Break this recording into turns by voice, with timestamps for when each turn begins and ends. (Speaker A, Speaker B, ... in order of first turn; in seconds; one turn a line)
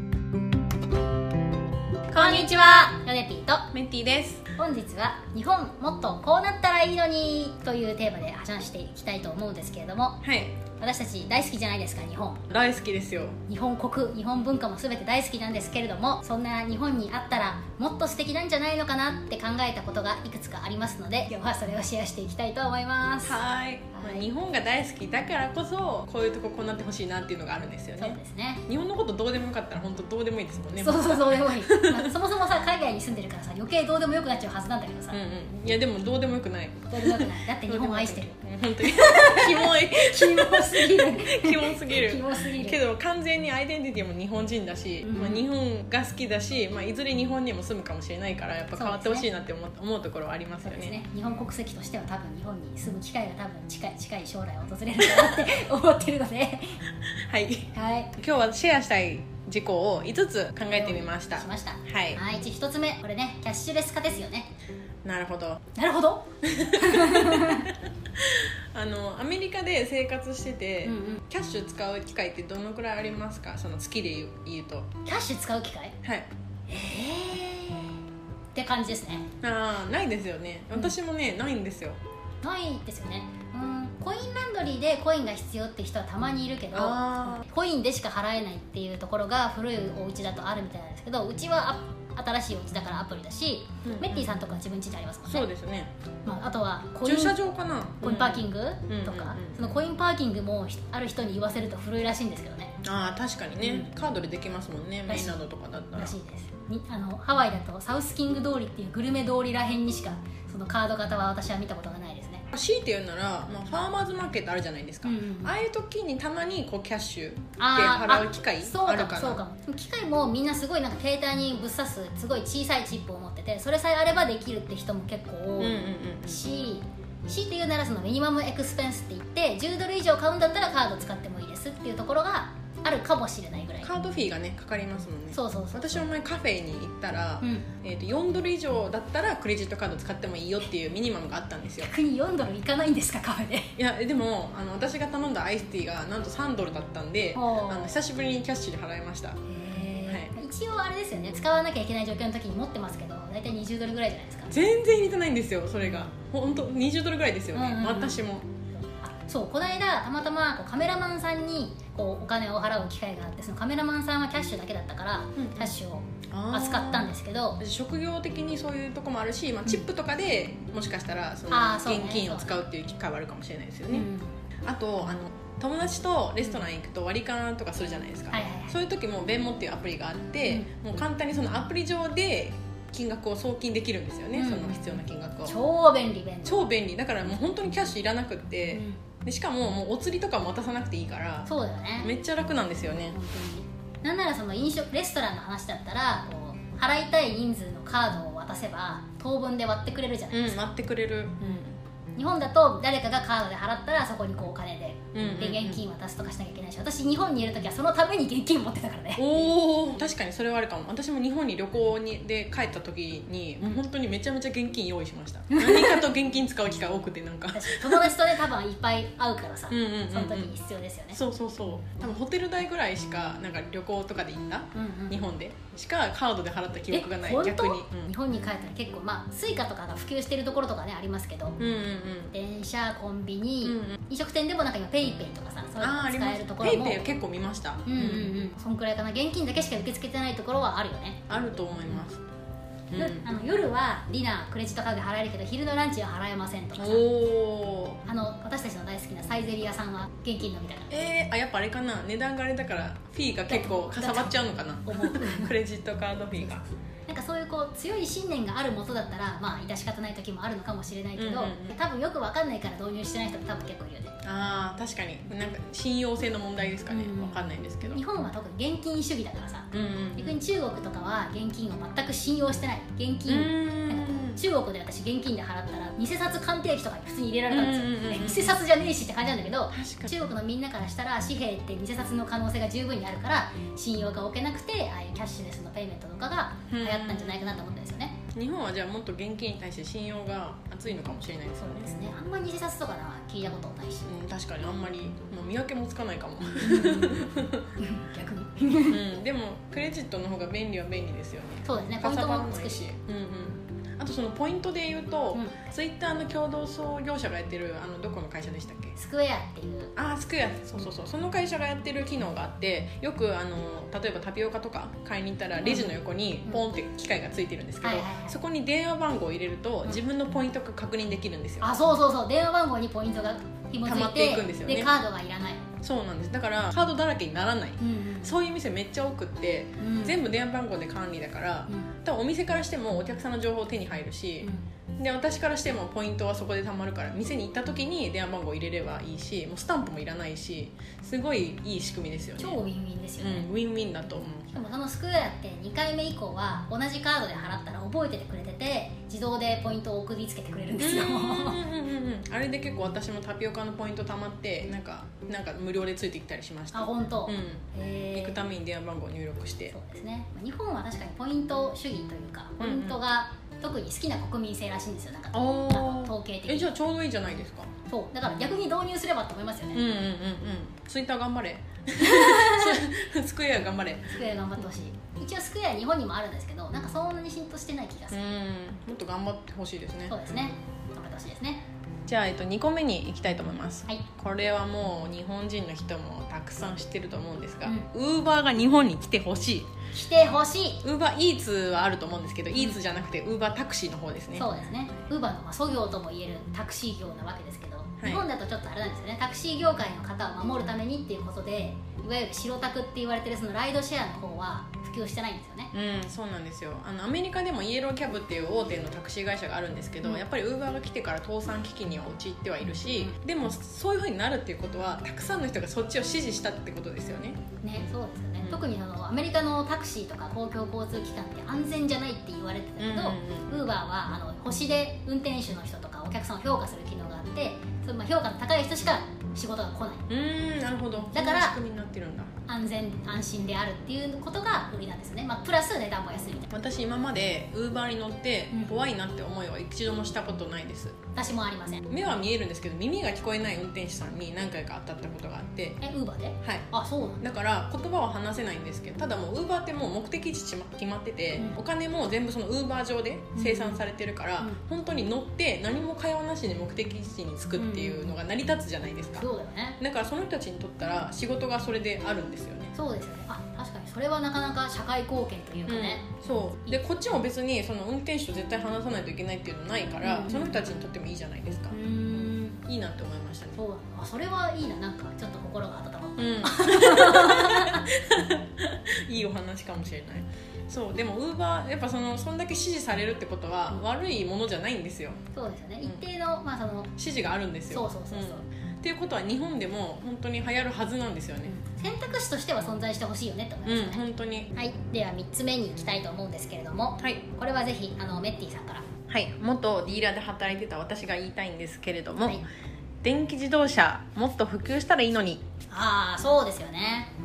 Speaker A: 2.1-2.9
Speaker B: 2.1-3.7
Speaker A: 3.7-4.4
Speaker B: 4.6-10.2
Speaker A: 10.2-10.6
Speaker B: 10.8-12.5
Speaker A: 12.5-13.4
Speaker B: 13.5-23.4
Speaker A: 23.2-32.1
Speaker B: 23.9-24.3
Speaker B: 28.0-28.6
Speaker B: 30.8-35.2
Speaker A: 35.1-51.0
Speaker B: 36.9-42.8
Speaker B: 45.0-45.4
Speaker B: 48.8-49.3
Speaker B: 50.6-56.8
Speaker A: 57.1-62.2
Speaker B: 57.7-58.1
Speaker B: 60.7-64.5
Speaker A: 65.0-65.6
Speaker B: 65.7-67.7
Speaker A: 66.4-74.9
Speaker B: 70.8-71.2
Speaker B: 75.0-76.0
Speaker A: 76.0-76.3
Speaker B: 76.7-78.0
Speaker B: 78.5-79.3
Speaker A: 79.4-82.0
Speaker B: 82.4-95.5
Speaker A: 86.7-87.4
Speaker A: 93.8-94.3
Speaker A: 95.3-95.9
Speaker B: 96.2-97.3
Speaker A: 97.0-99.7
Speaker B: 98.0-102.8
Speaker A: 102.8-106.1
Speaker B: 105.1-105.4
Speaker B: 106.0-112.5
Speaker A: 112.5-119.4
Speaker B: 115.0-115.5
Speaker B: 117.6-133.9
Speaker A: 125.6-126.4
Speaker A: 133.8-141.9
Speaker B: 135.3-136.1
Speaker B: 137.4-137.7
Speaker B: 141.8-143.7
Speaker A: 143.8-149.4
Speaker B: 147.3-148.0
Speaker B: 149.5-154.5
Speaker A: 150.1-150.3
Speaker A: 154.5-158.5
Speaker B: 157.5-158.2
Speaker B: 158.8-167.6
Speaker A: 165.4-165.7
Speaker A: 166.3-174.1
Speaker B: 171.5-172.6
Speaker B: 173.9-174.3
Speaker A: 174.6-185.6
Speaker B: 178.3-178.7
Speaker B: 184.3-184.8
Speaker B: 185.4-186.6
Speaker A: 186.4-191.5
Speaker B: 188.7-189.0
Speaker B: 191.5-192.1
Speaker A: 192.0-193.2
Speaker B: 193.1-200.6
Speaker A: 200.3-201.8
Speaker B: 202.2-209.4
Speaker A: 205.1-205.8
Speaker A: 209.2-218.1
Speaker B: 215.5-216.0
Speaker B: 217.5-221.2
Speaker A: 219.7-220.5
Speaker A: 221.1-228.1
Speaker B: 224.7-225.2
Speaker B: 226.9-231.6
Speaker A: 231.6-232.3
Speaker B: 232.3-237.0
Speaker A: 233.6-234.0
Speaker A: 235.8-238.3
Speaker B: 237.8-241.3
Speaker A: 241.3-242.2
Speaker A: 242.9-243.2
Speaker B: 242.9-247.0
Speaker A: 246.8-248.0
Speaker B: 248.1-251.0
Speaker A: 250.9-256.6
Speaker B: 253.5-255.5
Speaker B: 256.4-264.1
Speaker A: 261.2-261.7
Speaker A: 264.2-268.0
Speaker B: 266.9-288.2
Speaker A: 269.7-270.4
Speaker A: 273.3-274.4
Speaker A: 277.5-278.6
Speaker A: 279.7-280.1
Speaker A: 286.7-287.6
Speaker A: 288.3-291.9
Speaker B: 291.6-294.1
Speaker A: 294.1-297.7
Speaker B: 296.6-299.0
Speaker A: 298.9-308.9
Speaker B: 301.6-302.9
Speaker B: 305.3-305.6
Speaker B: 308.9-309.9
Speaker A: 309.9-321.7
Speaker B: 315.6-315.9
Speaker B: 317.8-318.4
Speaker B: 321.6-325.6
Speaker A: 323.8-324.9
Speaker A: 325.8-342.6
Speaker B: 327.8-328.3
Speaker B: 329.8-330.1
Speaker B: 342.4-343.5
Speaker A: 343.2-344.5
Speaker B: 344.5-351.6
Speaker A: 350.8-359.8
Speaker B: 356.7-358.4
Speaker B: 359.7-366.7
Speaker A: 362.6-363.0
Speaker A: 365.3-367.7
Speaker B: 367.9-369.8
Speaker A: 369.7-374.2
Speaker B: 372.0-372.8
Speaker B: 374.1-378.2
Speaker A: 378.1-380.1
Speaker B: 380.1-381.6
Speaker A: 382.1-389.7
Speaker B: 389.9-390.8
Speaker A: 390.8-394.5
Speaker B: 394.4-405.7
Speaker A: 398.0-398.2
Speaker A: 405.7-417.4
Speaker B: 417.6-430.1
Speaker A: 422.8-423.5
Speaker A: 430.1-432.3
Speaker B: 431.1-431.6
Speaker B: 432.5-436.5
Speaker A: 436.5-441.0
Speaker B: 441.1-441.8
Speaker A: 441.9-445.8
Speaker B: 445.8-447.2
Speaker A: 447.2-459.3
Speaker B: 453.3-453.8
Speaker B: 457.6-458.1
Speaker B: 459.2-459.8
Speaker A: 459.8-462.7
Speaker B: 462.7-466.1
Speaker A: 465.7-473.6
Speaker B: 470.0-470.6
Speaker B: 471.7-472.6
Speaker B: 473.6-477.9
Speaker A: 476.2-485.2
Speaker B: 485.3-486.9
Speaker A: 487.0-491.5
Speaker B: 487.7-488.4
Speaker B: 491.5-494.0
Speaker A: 493.6-494.5
Speaker B: 494.5-498.9
Speaker A: 499.1-502.4
Speaker A: 503.0-505.4
Speaker B: 505.7-507.1